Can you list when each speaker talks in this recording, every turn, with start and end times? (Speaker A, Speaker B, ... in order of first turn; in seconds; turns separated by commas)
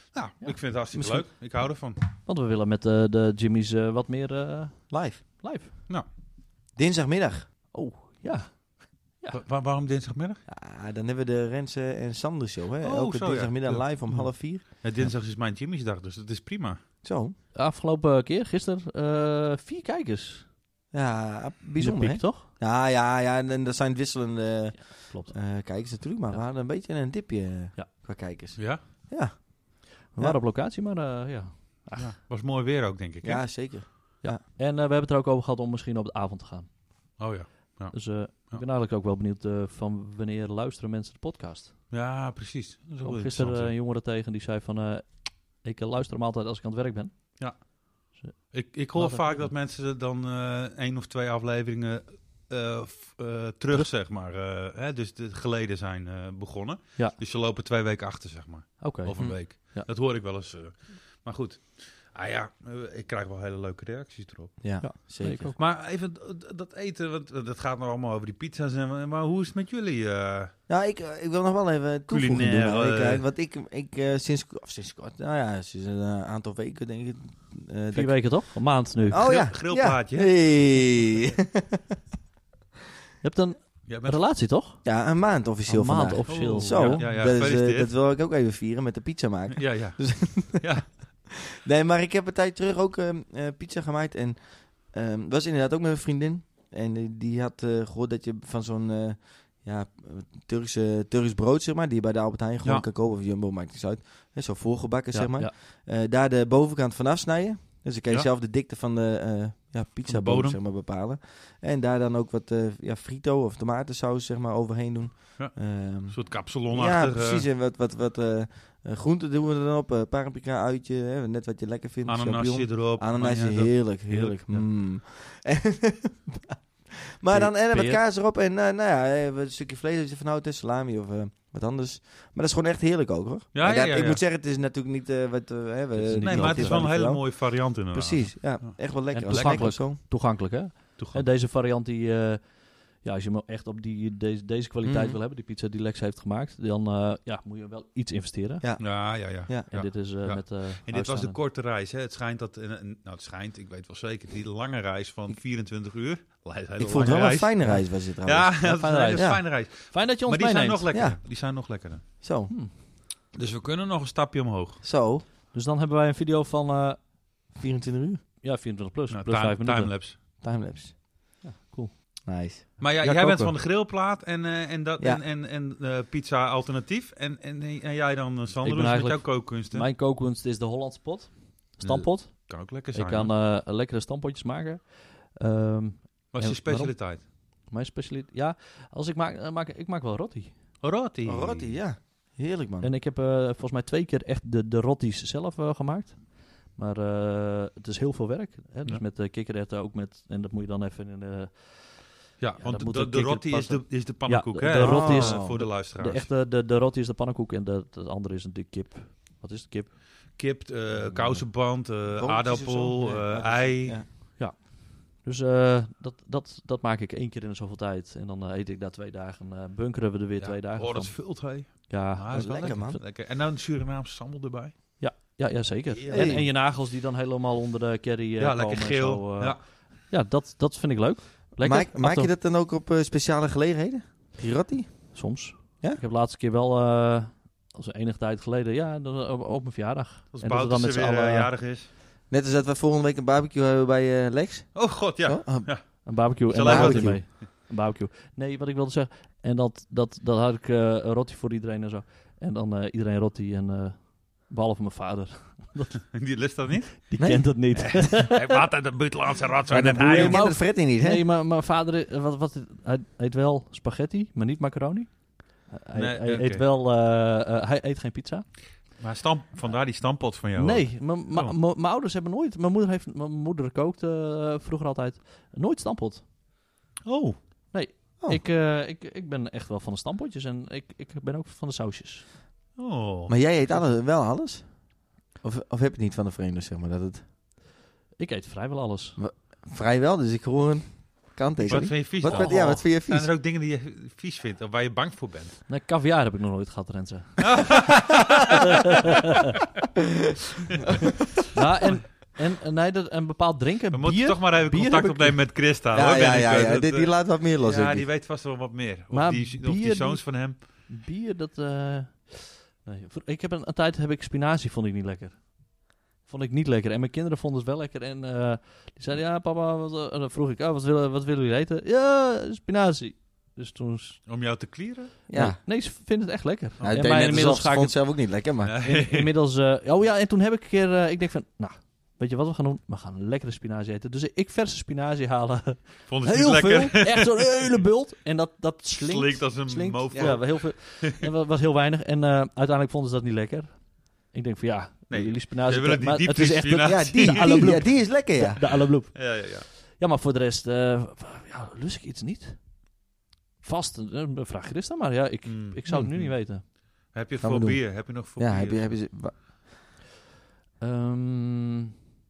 Speaker A: 0.1-2.0, Speaker B: 0.9-1.3, Speaker C: 2.2-5.7, Speaker B: 4.9-5.2, Speaker B: 6.8-7.5, Speaker C: 7.7-9.4, Speaker A: 9.3-10.4, Speaker B: 10.5-15.1, Speaker A: 12.8-16.8, Speaker B: 17.0-17.4, Speaker C: 17.6-20.5, Speaker B: 20.9-30.4, Speaker C: 21.8-22.5, Speaker C: 24.7-25.6, Speaker A: 28.6-28.8, Speaker C: 30.1-32.2, Speaker A: 32.0-33.8, Speaker B: 33.2-34.4, Speaker C: 34.2-36.8, Speaker A: 37.2-38.6, Speaker C: 37.9-41.8, Speaker A: 41.9-43.7, Speaker C: 43.0-47.4, Speaker A: 47.4-64.6, Speaker C: 48.1-49.5, Speaker C: 58.8-59.9, Speaker B: 64.6-65.5, Speaker C: 64.8-65.6, Speaker A: 65.6-70.5, Speaker B: 70.7-81.8, Speaker A: 72.1-73.2, Speaker C: 77.9-79.3, Speaker A: 79.1-81.0, Speaker C: 83.2-84.8, Speaker A: 83.9-84.2, Speaker B: 84.8-140.0, Speaker C: 85.7-87.1, Speaker A: 86.3-87.9, Speaker A: 89.6-91.3, Speaker C: 105.1-105.5, Speaker A: 110.0-110.6, Speaker A: 115.4-117.5, Speaker A: 122.1-124.6, Speaker C: 127.3-128.0, Speaker A: 133.5-134.2, Speaker C: 135.9-136.9, Speaker A: 136.2-139.8, Speaker C: 139.1-148.7, Speaker A: 141.0-141.3, Speaker B: 144.8-145.2, Speaker B: 148.6-149.7, Speaker A: 148.8-162.0, Speaker C: 149.7-151.4, Speaker B: 156.8-159.4, Speaker C: 158.6-160.9, Speaker B: 160.9-161.2, Speaker B: 162.2-162.5, Speaker A: 163.3-164.8, Speaker B: 164.8-165.2, Speaker C: 165.5-167.0, Speaker B: 167.5-168.2, Speaker C: 168.4-169.9, Speaker A: 169.1-170.2, Speaker B: 170.4-171.0, Speaker C: 171.4-172.2, Speaker B: 172.3-172.7, Speaker A: 172.8-179.9, Speaker C: 173.0-173.5, Speaker C: 178.6-190.6, Speaker A: 181.8-183.3, Speaker A: 186.3-187.2, Speaker A: 190.8-191.8, Speaker B: 191.2-192.9, Speaker C: 192.8-210.0, Speaker A: 202.4-206.3, Speaker B: 204.7-205.7, Speaker A: 210.3-214.0, Speaker C: 210.9-211.4, Speaker B: 212.2-214.1, Speaker C: 214.4-222.8, Speaker A: 220.4-224.8, Speaker B: 222.3-223.0, Speaker C: 225.0-232.3, Speaker A: 225.9-226.6, Speaker B: 226.1-226.4, Speaker A: 228.4-229.7, Speaker B: 231.6-236.0, Speaker C: 235.1-241.5, Speaker A: 240.3-241.9, Speaker B: 242.3-246.0, Speaker A: 244.8-247.4, Speaker C: 246.1-256.0, Speaker B: 246.6-247.2, Speaker A: 256.1-257.0, Speaker C: 257.1-258.6, Speaker B: 257.2-257.5, Speaker A: 257.7-260.5, Speaker B: 259.7-261.2, Speaker C: 260.1-268.5, Speaker A: 265.9-266.6, Speaker A: 268.9-271.6, Speaker C: 270.6-276.2, Speaker A: 277.1-277.7, Speaker C: 277.7-282.3, Speaker A: 282.8-283.4, Speaker B: 283.3-287.3, Speaker C: 288.2-289.2, Speaker B: 289.2-293.3, Speaker A: 291.7-295.6, Speaker C: 291.7-292.9, Speaker C: 295.7-297.9, Speaker A: 297.5-298.7, Speaker C: 301.5-305.4, Speaker A: 303.9-310.6, Speaker B: 305.9-308.1, Speaker C: 309.1-324.2, Speaker A: 324.3-325.1, Speaker B: 325.3-325.6, Speaker C: 325.3-328.3, Speaker B: 326.8-328.8, Speaker A: 328.6-329.3, Speaker C: 328.8-352.6, Speaker A: 336.1-337.8, Speaker A: 339.0-341.2, Speaker B: 340.1-340.4, Speaker A: 345.1-347.9, Speaker B: 346.8-348.9, Speaker A: 349.1-349.7, Speaker C: 353.6-356.6, Speaker A: 355.5-356.3, Speaker B: 355.9-356.3, Speaker A: 357.1-359.0, Speaker B: 357.4-359.4, Speaker C: 360.8-361.9